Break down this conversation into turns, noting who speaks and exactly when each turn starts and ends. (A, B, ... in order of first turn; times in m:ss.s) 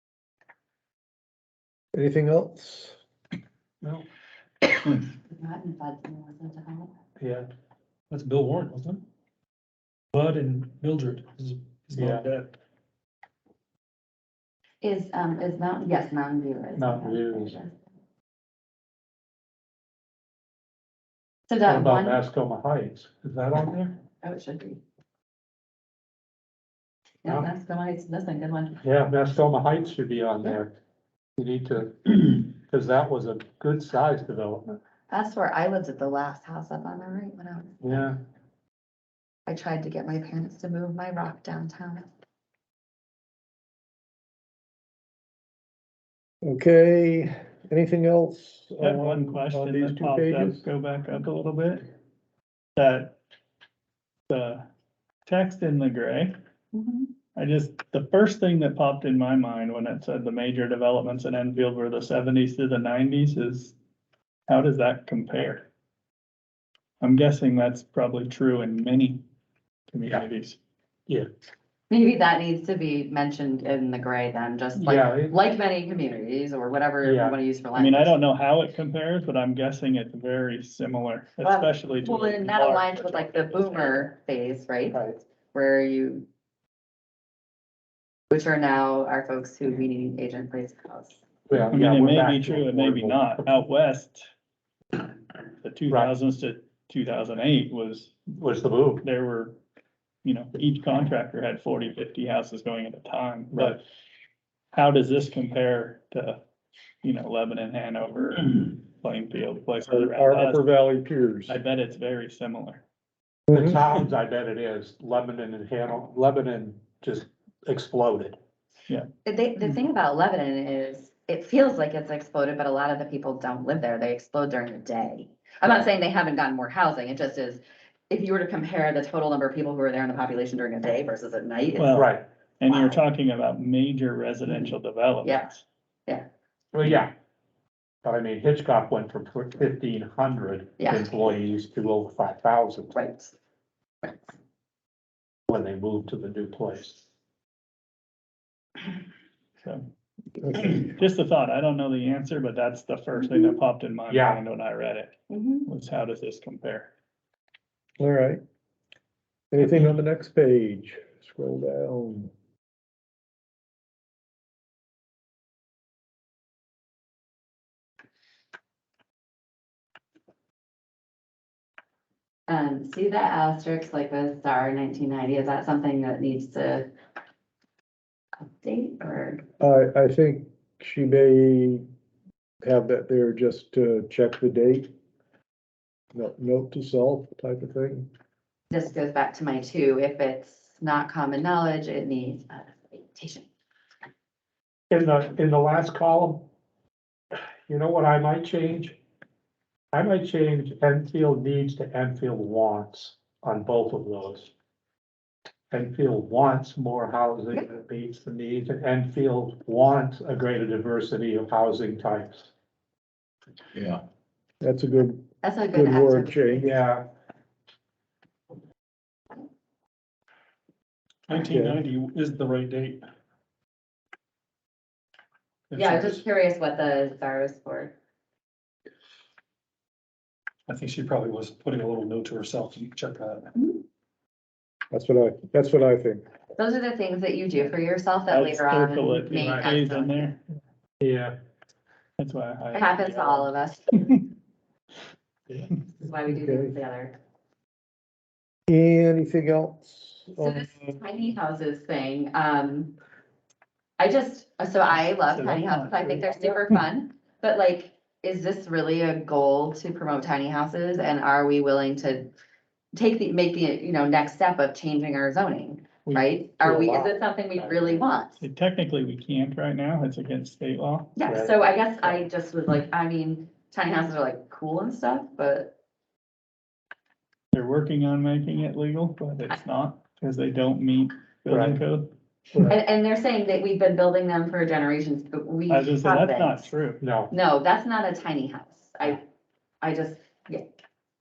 0:02.0-0:03.0 A
0:05.3-0:06.9 B
0:07.2-0:07.5 C
0:08.1-0:09.0 D
0:10.1-0:12.5 D
0:12.0-0:12.3 C
0:14.8-0:17.8 B
0:16.8-0:17.6 C
0:21.5-0:22.2 B
0:21.7-0:24.0 C
0:24.2-0:24.8 B
0:27.2-0:28.8 B
0:28.8-0:30.8 C
0:31.4-0:34.8 C
0:35.1-0:38.1 B
0:37.8-0:38.2 C
0:39.5-0:42.1 B
0:46.4-0:50.6 A
0:48.8-0:51.9 E
0:52.8-0:53.2 E
0:54.3-0:54.6 E
0:55.3-0:56.4 E
0:56.7-0:57.1 B
0:57.4-1:03.8 E
1:04.5-1:05.7 E
1:07.0-1:09.2 E
1:09.9-1:10.6 E
1:11.9-1:18.2 B
1:14.8-1:15.4 C
1:17.0-1:17.4 C
1:17.8-1:24.0 E
1:21.4-1:26.3 B
1:24.9-1:25.2 C
1:28.3-1:31.2 B
1:31.5-1:33.6 C
1:31.7-1:34.3 E
1:35.6-1:38.2 E
1:38.4-1:39.1 C
1:39.0-1:39.6 E
1:40.2-1:43.8 E
1:43.5-1:43.8 C
1:44.7-1:46.4 E
1:47.0-1:50.6 E
1:49.9-1:51.6 A
1:51.5-1:52.8 E
1:53.5-1:53.8 A
1:53.5-1:58.4 C
1:59.2-2:12.1 B
2:11.8-2:15.6 E
2:11.9-2:12.2 C
2:12.7-2:13.0 B
2:15.2-2:15.5 B
2:16.7-2:17.1 C
2:18.0-2:22.9 C
2:20.8-2:21.1 B
2:22.9-2:23.3 B
2:25.5-2:27.0 C
2:30.4-2:30.9 A
2:30.6-2:36.9 E
2:33.2-2:33.6 B
2:34.1-2:34.4 C
2:35.3-2:35.7 B
2:38.0-2:38.4 A
2:39.5-2:42.3 A
2:52.5-2:56.9 B
2:58.4-2:59.4 B
2:59.6-3:01.8 A
3:02.6-3:04.9 A
3:06.1-3:08.1 A
3:08.7-3:13.5 B
3:14.9-3:16.5 C
3:17.7-3:19.0 C
3:19.9-3:24.5 C
3:25.7-3:32.5 C
3:34.6-3:36.7 A
3:35.4-3:36.7 B
3:36.6-3:37.1 C
3:41.3-3:43.0 D
3:41.4-3:41.8 A
3:45.7-3:46.2 D
3:45.7-3:48.0 B
3:50.7-3:53.5 D
3:53.6-3:53.8 B
3:54.9-3:56.2 A
3:56.6-4:00.3 B
3:58.3-4:00.4 E
4:01.0-4:01.4 C
4:02.2-4:03.5 E
4:02.7-4:04.0 B
4:06.0-4:07.2 B
4:06.3-4:06.8 A
4:08.7-4:11.0 A
4:10.3-4:12.9 B
4:14.0-4:22.3 B
4:14.9-4:16.8 E
4:22.9-4:28.4 B
4:26.1-4:26.3 E
4:26.6-4:28.0 C
4:28.4-4:31.2 E
4:31.2-4:35.8 B
4:31.3-4:31.5 C
4:37.5-4:42.1 E
4:41.5-4:41.8 C
4:42.7-4:46.7 B
4:45.7-4:47.0 E
4:47.0-4:47.3 C
4:47.3-4:49.2 B
4:49.8-4:50.6 B